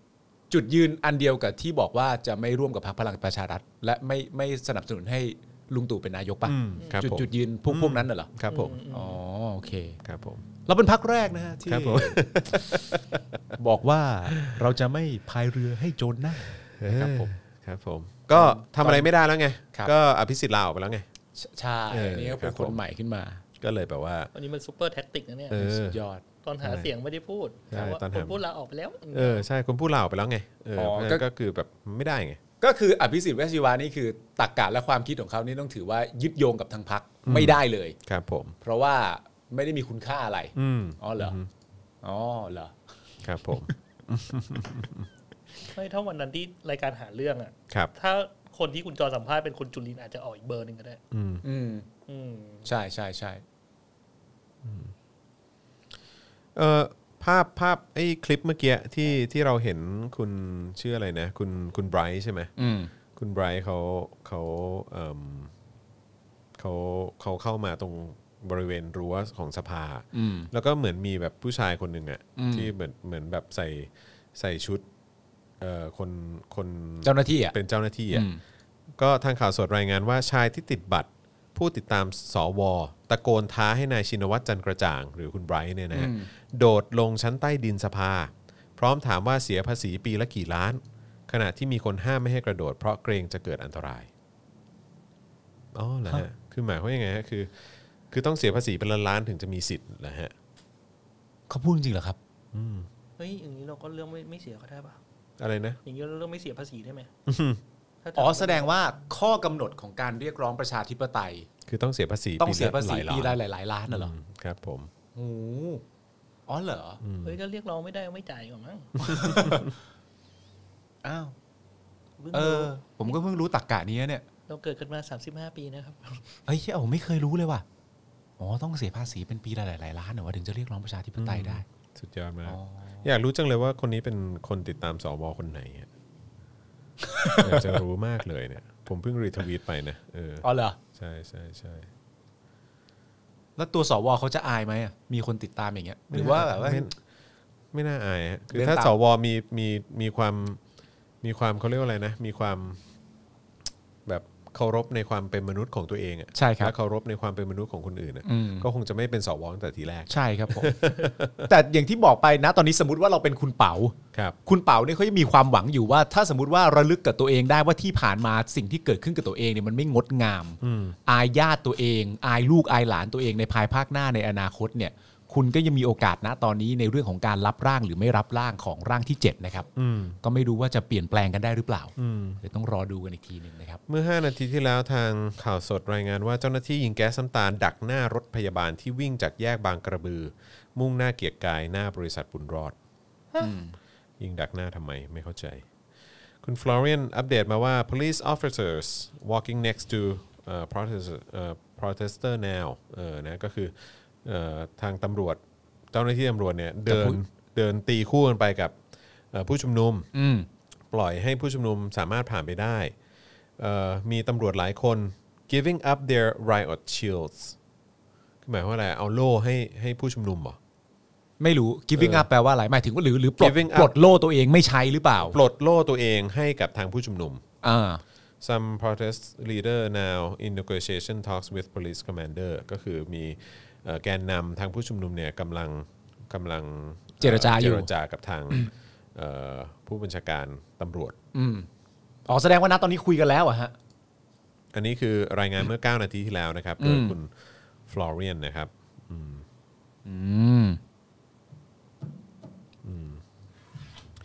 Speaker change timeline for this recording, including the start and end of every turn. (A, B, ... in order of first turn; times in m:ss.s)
0:00.5-0:08.3 A
0:06.4-0:08.8 B
0:06.8-0:07.0 C
0:08.5-0:09.2 C
0:08.9-0:10.0 A
0:10.0-0:10.4 B
0:10.7-0:12.2 A
0:11.7-0:13.4 B
0:13.6-0:17.3 A
0:16.8-0:21.1 B
0:18.3-0:19.1 A
0:21.4-0:23.4 A
0:21.9-0:22.8 B
0:23.6-0:24.3 B
0:24.3-0:25.6 C
0:25.5-0:26.0 B
0:25.5-0:26.2 A
0:26.4-0:29.4 C
0:26.6-0:26.9 B
0:27.7-0:28.4 B
0:29.1-0:32.4 B
0:30.8-0:31.2 A
0:32.6-0:38.0 A
0:37.3-0:38.6 B
0:38.6-0:41.4 A
0:40.6-0:41.5 B
0:42.0-0:42.7 A
0:43.2-0:45.1 B
0:45.7-0:51.0 C
0:51.1-0:51.4 B
0:51.4-0:51.9 A
0:52.1-0:52.7 C
0:52.6-0:53.4 A
0:54.6-0:54.9 B
0:56.6-1:02.5 B
1:02.6-1:02.9 A
1:03.2-1:05.5 B
1:06.6-1:14.8 B
1:10.1-1:10.5 A
1:12.4-1:12.7 A
1:15.6-1:18.3 B
1:17.0-1:17.6 A
1:18.1-1:18.4 A
1:19.0-1:34.1 B
1:25.9-1:26.3 A
1:35.7-1:40.3 B
1:41.5-1:42.2 A
1:42.5-1:42.9 B
1:43.2-1:45.0 C
1:45.4-1:45.8 B
1:45.8-1:47.1 C
1:47.3-1:47.6 B
1:48.0-1:48.7 C
1:48.2-1:51.5 A
1:51.7-1:54.9 B
1:52.4-1:54.1 A
1:55.2-1:55.8 A
1:56.5-1:57.0 A
1:57.0-1:57.4 B
1:57.2-1:59.4 C
1:59.0-1:59.7 A
1:59.1-1:59.7 B
2:01.0-2:01.3 A
2:02.2-2:02.7 C
2:02.3-2:04.2 A
2:04.5-2:06.2 C
2:06.5-2:07.6 A
2:08.4-2:11.6 A
2:11.2-2:15.9 B
2:12.5-2:13.1 A
2:17.1-2:17.8 A
2:17.4-2:21.9 B
2:20.4-2:20.8 A
2:23.6-2:26.9 A
2:26.1-2:27.0 B
2:27.7-2:30.6 B
2:28.5-2:28.9 A
2:31.2-2:32.8 B
2:34.0-2:41.5 B
2:36.4-2:36.7 A
2:38.2-2:38.7 A
2:40.1-2:59.7 A
2:50.6-2:51.0 B
2:59.8-3:00.2 B
3:00.2-3:03.8 A
3:02.0-3:02.4 B
3:03.9-3:12.8 B
3:13.4-3:13.8 A
3:14.2-3:15.6 B
3:16.4-3:25.4 B
3:25.9-3:28.8 B
3:26.9-3:27.2 A
3:29.3-3:30.1 B
3:30.1-3:30.5 A
3:30.9-3:32.9 B
3:33.6-3:37.6 B
3:38.4-3:40.6 B
3:41.4-3:45.4 A
3:42.0-3:42.3 B
3:43.4-3:44.0 B
3:45.2-3:47.4 B
3:47.6-3:48.0 A
3:48.4-4:01.2 B
3:57.2-3:57.9 A
4:01.3-4:01.7 A
4:02.3-4:03.8 A
4:04.7-4:07.3 B
4:06.8-4:07.2 A
4:07.9-4:09.4 B
4:10.0-4:10.8 A
4:12.8-4:13.2 B